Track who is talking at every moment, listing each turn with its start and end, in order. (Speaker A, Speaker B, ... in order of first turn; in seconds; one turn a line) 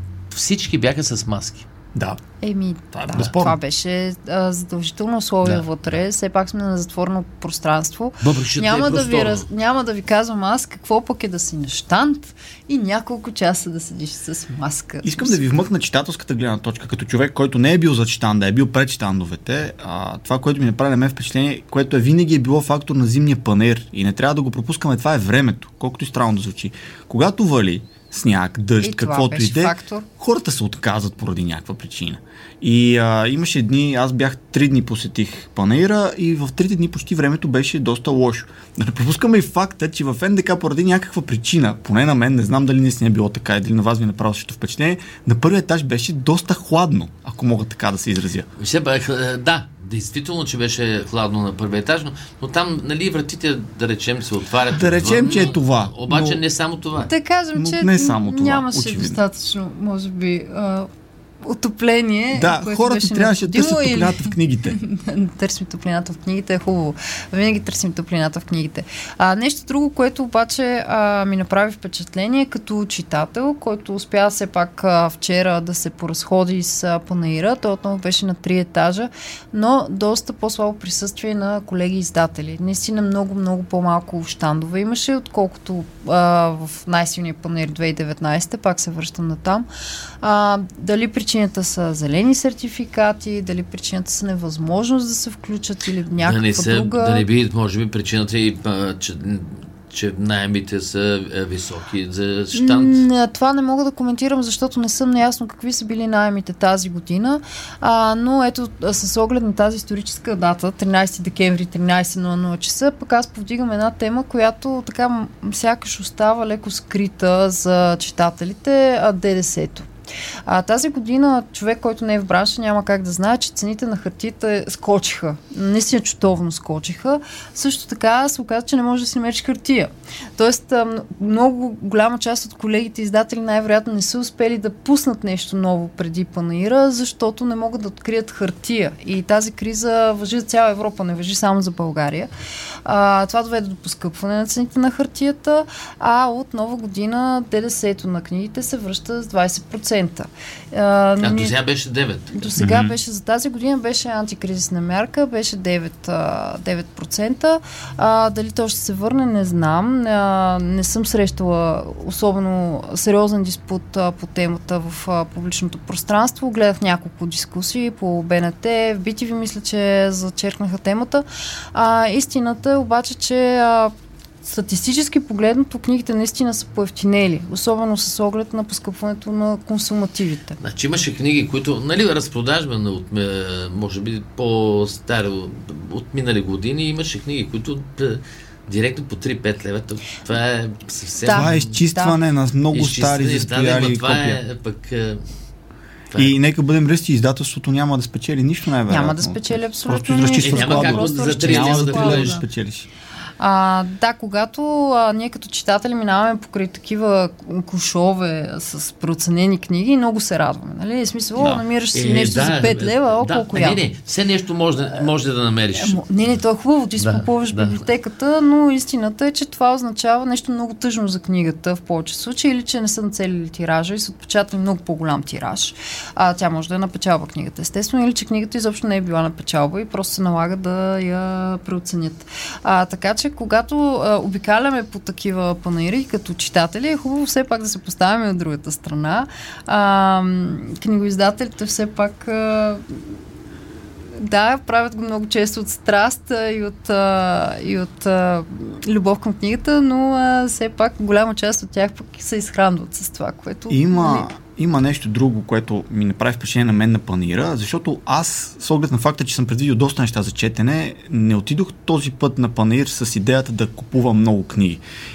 Speaker A: 0.3-1.6
Speaker B: 1.9-2.2
Speaker C: 2.4-15.4
Speaker B: 2.9-3.6
Speaker A: 8.2-9.5
Speaker B: 15.0-48.5
Speaker C: 28.8-30.1
Speaker A: 48.6-57.1
Speaker B: 54.7-56.4
Speaker C: 57.1-60.9
Speaker B: 57.5-59.2
Speaker C: 61.4-89.7
Speaker B: 62.3-64.8
Speaker C: 90.2-97.2
Speaker A: 96.2-103.0
Speaker C: 102.5-119.9
Speaker C: 120.5-142.3
Speaker C: 142.8-151.6
Speaker A: 151.2-152.6
Speaker C: 152.3-180.6
Speaker B: 152.6-152.9
Speaker A: 180.6-191.7
Speaker C: 191.2-192.2
Speaker B: 191.3-194.4
Speaker A: 192.7-195.2
Speaker B: 196.2-202.9
Speaker C: 198.9-202.4
Speaker A: 200.4-202.4
Speaker C: 203.4-213.8
Speaker A: 211.4-216.0
Speaker C: 215.8-242.9
Speaker A: 217.0-217.8
Speaker C: 244.2-254.3
Speaker B: 253.7-264.8